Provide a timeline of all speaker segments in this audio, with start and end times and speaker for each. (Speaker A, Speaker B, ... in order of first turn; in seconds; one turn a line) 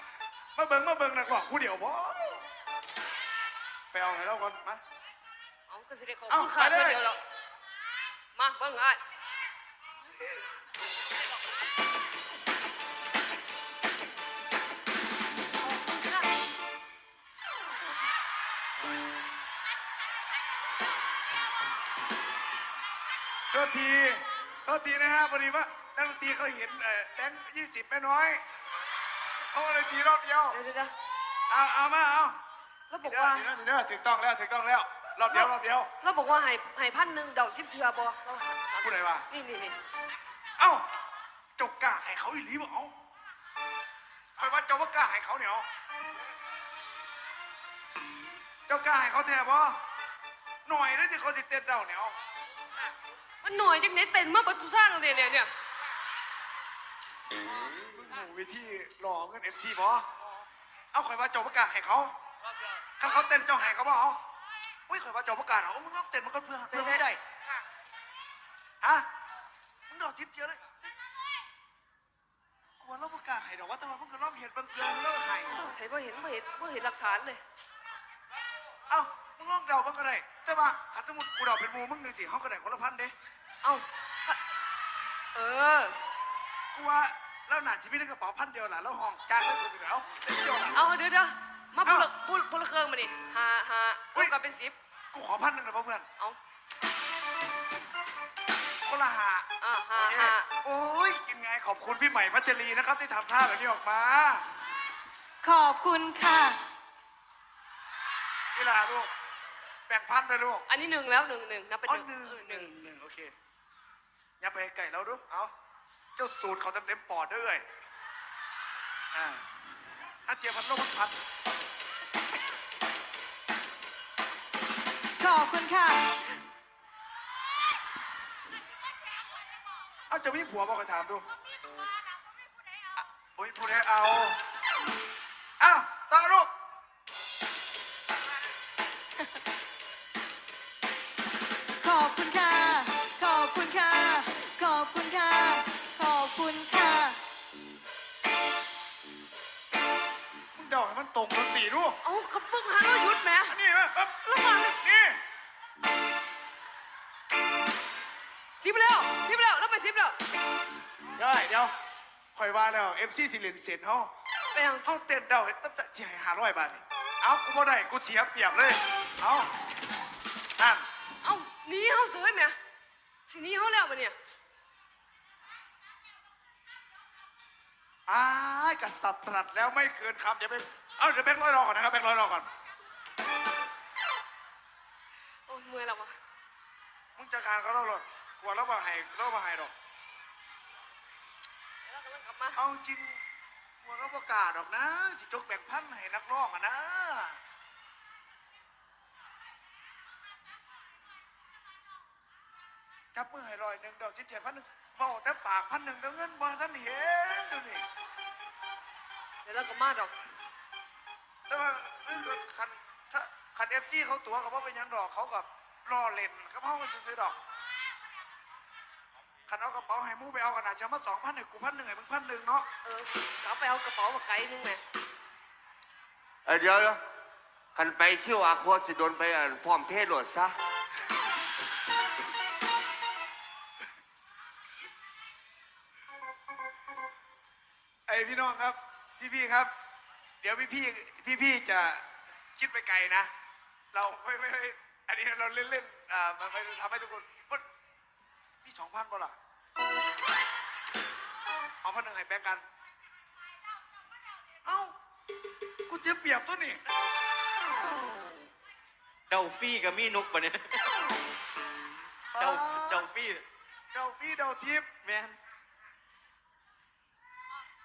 Speaker A: 0.6-2.5
Speaker A: 3.9-4.8
Speaker B: 5.7-7.2
Speaker A: 6.3-7.0
Speaker B: 8.4-9.0
Speaker B: 15.6-16.3
Speaker A: 23.5-28.4
Speaker A: 29.5-30.6
Speaker B: 30.5-30.9
Speaker A: 31.5-32.4
Speaker B: 32.9-33.5
Speaker A: 33.0-35.9
Speaker B: 35.3-39.8
Speaker A: 38.8-39.2
Speaker A: 40.6-40.8
Speaker A: 41.6-42.9
Speaker A: 44.4-45.7
Speaker A: 48.7-49.8
Speaker A: 50.6-52.1
Speaker B: 53.4-55.5
Speaker A: 57.9-60.0
Speaker A: 60.9-62.1
Speaker A: 63.0-64.2
Speaker A: 64.9-67.2
Speaker B: 66.7-67.0
Speaker A: 69.9-70.6
Speaker A: 72.8-75.6
Speaker B: 75.6-77.4
Speaker A: 78.9-83.1
Speaker B: 83.6-84.4
Speaker B: 85.3-86.0
Speaker A: 86.7-90.9
Speaker B: 90.7-94.8
Speaker A: 95.1-96.1
Speaker A: 98.8-104.4
Speaker B: 99.6-100.5
Speaker C: 105.4-106.6
Speaker A: 108.5-109.1
Speaker A: 109.9-110.7
Speaker B: 110.7-112.7
Speaker A: 111.9-113.3
Speaker A: 114.4-115.5
Speaker A: 116.2-117.6
Speaker A: 119.1-119.4
Speaker A: 120.3-121.2
Speaker C: 125.2-126.1
Speaker A: 130.1-131.2
Speaker A: 133.0-134.4
Speaker A: 135.6-136.5
Speaker C: 141.8-147.2
Speaker A: 150.5-152.0
Speaker B: 152.0-153.6
Speaker A: 153.5-155.2
Speaker B: 154.2-154.8
Speaker B: 158.6-160.2
Speaker A: 161.2-161.7
Speaker A: 162.3-164.1
Speaker B: 164.5-164.9
Speaker A: 164.8-169.5
Speaker A: 170.6-170.8
Speaker B: 171.2-172.6
Speaker B: 173.3-174.2
Speaker A: 178.1-182.5
Speaker B: 185.5-186.2
Speaker A: 187.2-189.7
Speaker B: 191.9-192.6
Speaker A: 192.6-193.2
Speaker A: 193.8-197.4
Speaker A: 203.1-207.8
Speaker B: 209.4-210.1
Speaker A: 211.5-217.4
Speaker A: 219.5-222.7
Speaker B: 222.8-224.8
Speaker D: 226.4-227.0
Speaker D: 227.8-230.6
Speaker A: 238.1-239.7
Speaker A: 240.4-242.0
Speaker A: 242.6-243.3
Speaker A: 243.9-247.6
Speaker A: 248.6-249.3
Speaker A: 251.8-252.6
Speaker A: 254.7-254.9
Speaker A: 255.9-256.8
Speaker E: 259.3-261.1
Speaker A: 262.3-263.1
Speaker E: 262.4-263.4
Speaker A: 263.9-264.9
Speaker E: 265.0-265.4